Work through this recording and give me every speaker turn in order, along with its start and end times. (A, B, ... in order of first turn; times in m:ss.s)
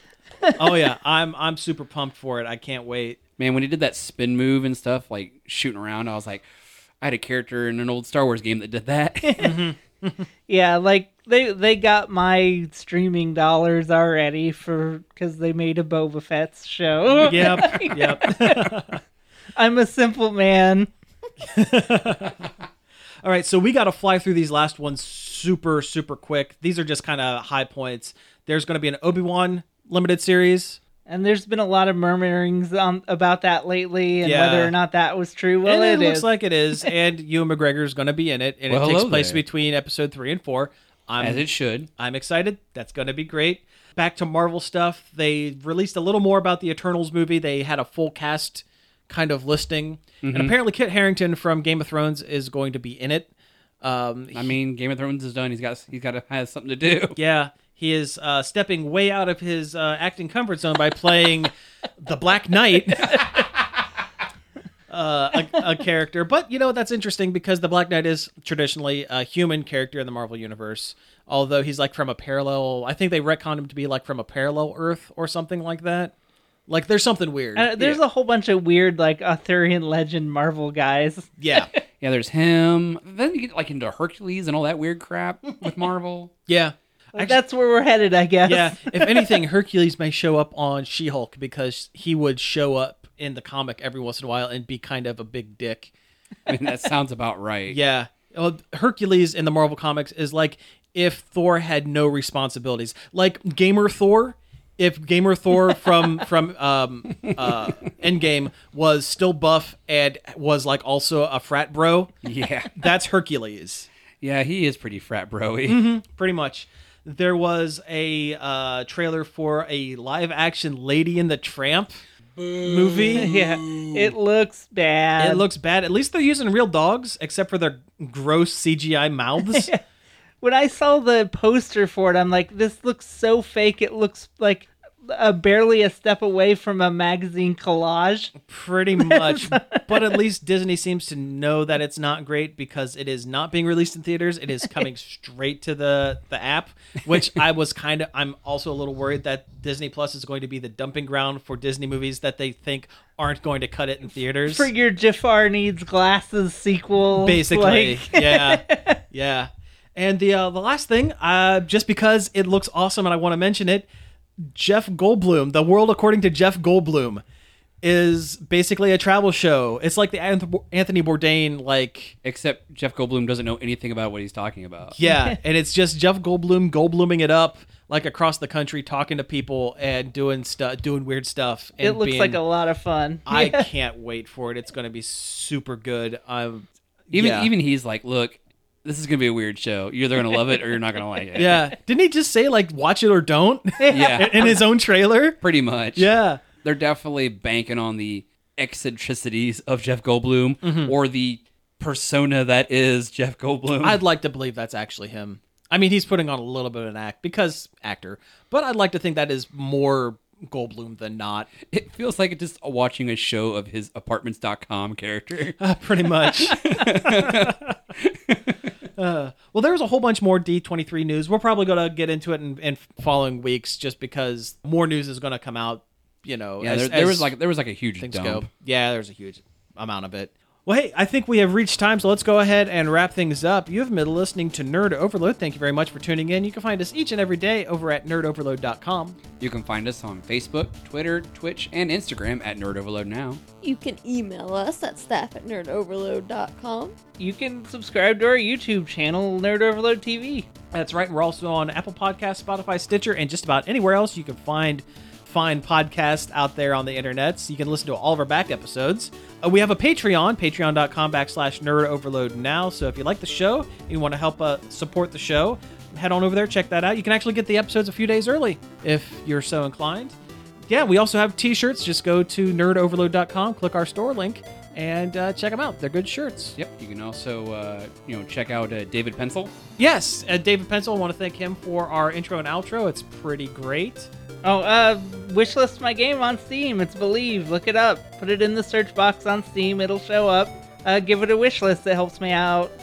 0:00.4-0:00.8 A
0:00.6-0:03.2 B
0:03.4-0:06.4 C
0:07.0-0:09.6 C
0:09.2-0:09.6 A
0:09.4-0:10.3 B
0:10.5-0:19.0 A
0:17.2-0:19.0 B
0:19.6-0:20.9 A
0:21.4-0:22.5 B
0:23.2-0:30.8 B
0:31.1-0:36.3 A
0:34.2-0:34.8 B
0:35.6-0:41.4 B
0:38.7-0:39.4 C
0:41.2-0:41.9 C
0:42.0-0:53.3 B
0:50.2-0:50.5 C
0:53.8-0:54.6 B
0:54.3-0:57.2 C
0:57.2-1:03.3 B
1:04.9-1:16.1 B
1:16.7-1:17.7 B
1:17.6-1:21.8 A
1:21.4-1:21.7 B
1:22.0-1:26.3 C
1:26.5-1:27.4 B
1:27.1-1:29.4 A
1:28.5-1:35.9 B
1:36.5-1:37.8 C
1:37.7-1:52.2 B
1:47.2-1:47.8 C
1:52.2-1:52.8 C
1:52.8-1:53.9 B
1:54.2-1:55.8 C
1:55.7-2:02.0 B
2:02.6-2:03.4 B
2:03.1-2:05.5 A
2:05.2-2:09.7 B
2:09.4-2:09.8 A
2:10.4-2:18.4 A
2:18.4-2:34.7 B
2:19.0-2:20.2 A
2:34.4-2:39.0 A
2:37.2-2:43.9 B
2:44.4-2:47.2 B
2:47.8-2:52.2 B
2:52.2-2:55.0 C
2:54.9-3:02.4 B
2:55.0-2:55.4 A
3:01.8-3:03.7 A
3:03.3-3:07.5 B
3:07.1-3:11.7 C
3:11.4-3:15.4 B
3:13.9-3:14.6 C
3:15.4-3:24.0 C
3:16.0-3:16.4 B
3:20.6-3:20.9 B
3:23.8-3:31.5 B
3:31.7-3:35.6 C
3:35.6-3:37.6 B
3:36.2-3:38.6 C
3:39.0-3:47.3 B
3:46.6-3:48.5 C
3:48.0-3:59.2 B
3:59.4-4:03.4 C
4:03.6-4:07.0 D
4:07.2-4:10.5 A
4:10.7-4:30.2 B
4:30.7-4:36.6 B
4:36.6-4:39.5 C
4:39.8-4:44.1 B
4:44.4-4:52.7 A